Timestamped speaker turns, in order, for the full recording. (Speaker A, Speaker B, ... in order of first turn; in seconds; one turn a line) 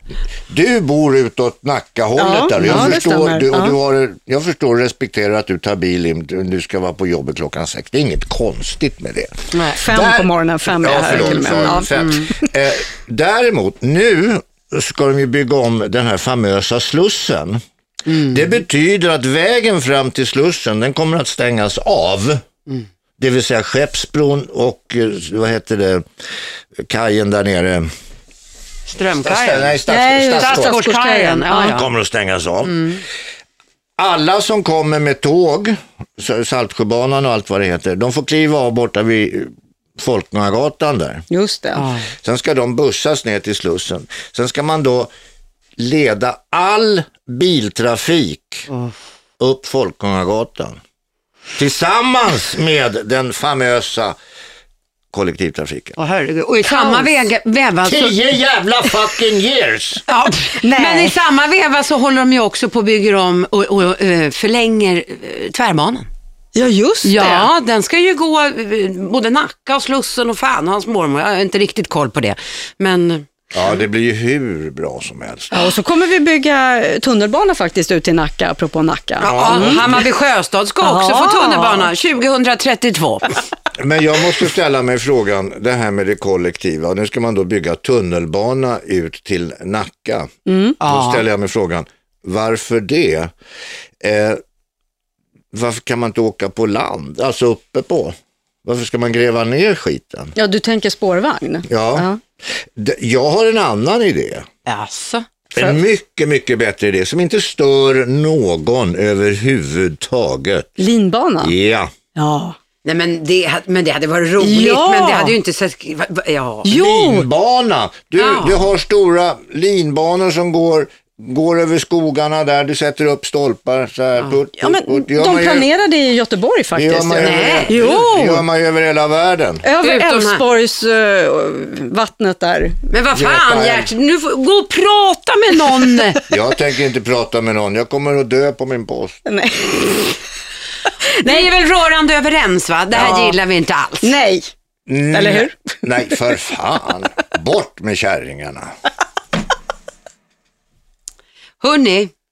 Speaker A: 0.5-17.6
Speaker B: 2.2-3.7
Speaker C: 2.6-2.9
Speaker C: 9.5-9.8
Speaker B: 9.8-12.5
Speaker C: 11.1-12.2
Speaker C: 18.1-18.5
Speaker A: 18.2-22.4
Speaker A: 23.2-26.1
Speaker A: 26.8-27.9
Speaker C: 28.9-29.7
Speaker A: 29.2-30.8
Speaker B: 29.9-31.8
Speaker C: 30.4-31.9
Speaker A: 31.7-33.0
Speaker C: 32.7-33.0
Speaker A: 34.0-41.2
Speaker B: 41.3-41.9
Speaker C: 41.8-42.1
Speaker A: 42.2-45.1
Speaker A: 45.8-48.7
Speaker C: 48.7-48.9
Speaker A: 49.4-50.8
Speaker A: 51.6-54.2
Speaker A: 55.1-56.0
Speaker C: 56.0-58.2
Speaker B: 56.6-57.1
Speaker A: 57.8-60.0
Speaker C: 60.1-66.1
Speaker B: 60.6-61.1
Speaker B: 66.5-67.5
Speaker C: 67.0-73.3
Speaker A: 73.5-75.5
Speaker B: 75.5-79.8
Speaker C: 79.2-83.3
Speaker A: 79.2-80.1
Speaker B: 80.8-81.9
Speaker A: 83.8-93.3
Speaker B: 90.5-90.8
Speaker C: 90.8-91.2
Speaker A: 94.0-94.4
Speaker A: 95.5-100.3
Speaker B: 100.4-102.2
Speaker A: 101.7-104.5
Speaker C: 104.7-105.3
Speaker A: 105.5-110.7
Speaker B: 110.8-111.5
Speaker A: 111.4-111.9
Speaker B: 112.2-112.6
Speaker C: 112.8-116.7
Speaker B: 114.4-115.3
Speaker B: 116.6-117.3
Speaker A: 116.7-125.7
Speaker C: 118.2-118.6
Speaker B: 124.6-128.4
Speaker A: 126.7-129.6
Speaker C: 127.1-128.0
Speaker B: 129.6-132.8
Speaker C: 129.8-130.4
Speaker C: 132.9-136.2
Speaker A: 133.1-133.9
Speaker A: 136.3-139.2
Speaker B: 139.2-140.2
Speaker B: 141.1-141.4
Speaker C: 141.2-144.2
Speaker B: 143.0-143.4
Speaker B: 144.0-144.5
Speaker A: 144.9-148.7
Speaker B: 145.1-146.2
Speaker C: 151.6-152.1